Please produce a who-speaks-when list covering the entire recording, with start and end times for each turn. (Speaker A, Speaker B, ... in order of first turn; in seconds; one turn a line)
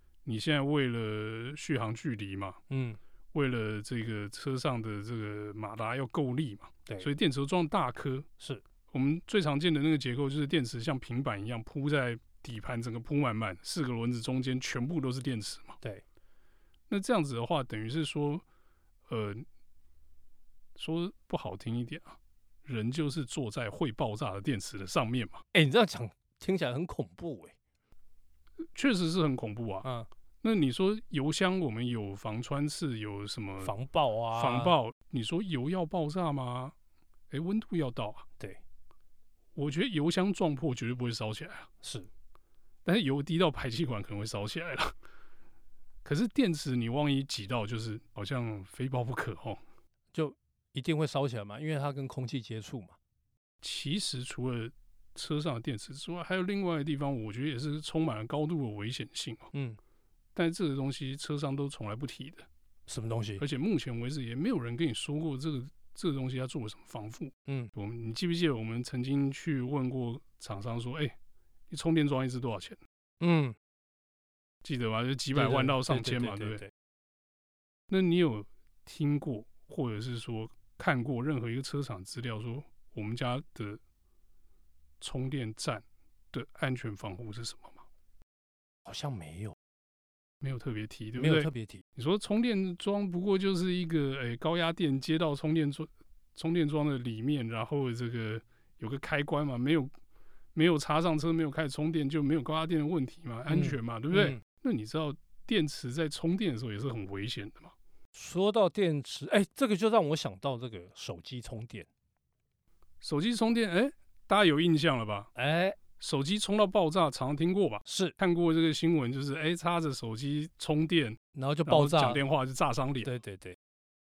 Speaker A: 0.2-2.6
Speaker B: 2.7-3.0
Speaker A: 3.3-8.3
Speaker A: 8.9-15.8
Speaker A: 16.9-18.4
Speaker A: 19.1-19.4
Speaker A: 20.8-25.4
Speaker B: 25.5-27.5
Speaker A: 28.7-29.9
Speaker B: 29.8-30.1
Speaker A: 30.4-33.7
Speaker B: 33.6-34.7
Speaker A: 34.3-36.7
Speaker A: 37.3-38.2
Speaker A: 39.5-41.7
Speaker B: 41.8-42.1
Speaker A: 42.8-45.0
Speaker A: 46.0-49.6
Speaker B: 50.1-53.0
Speaker A: 53.6-59.5
Speaker B: 59.5-59.8
Speaker A: 60.3-62.5
Speaker B: 62.9-63.4
Speaker A: 63.4-71.2
Speaker B: 67.5-67.7
Speaker A: 71.7-72.8
Speaker B: 73.2-73.5
Speaker A: 74.6-76.6
Speaker B: 75.3-76.7
Speaker A: 77.9-83.8
Speaker A: 85.0-87.8
Speaker B: 88.8-89.5
Speaker A: 90.4-99.9
Speaker B: 91.2-91.8
Speaker A: 100.5-107.7
Speaker B: 103.5-104.4
Speaker B: 108.1-111.9
Speaker A: 113.0-115.3
Speaker B: 115.3-115.8
Speaker A: 116.0-123.1
Speaker B: 117.8-118.2
Speaker B: 121.3-122.2
Speaker B: 123.0-123.5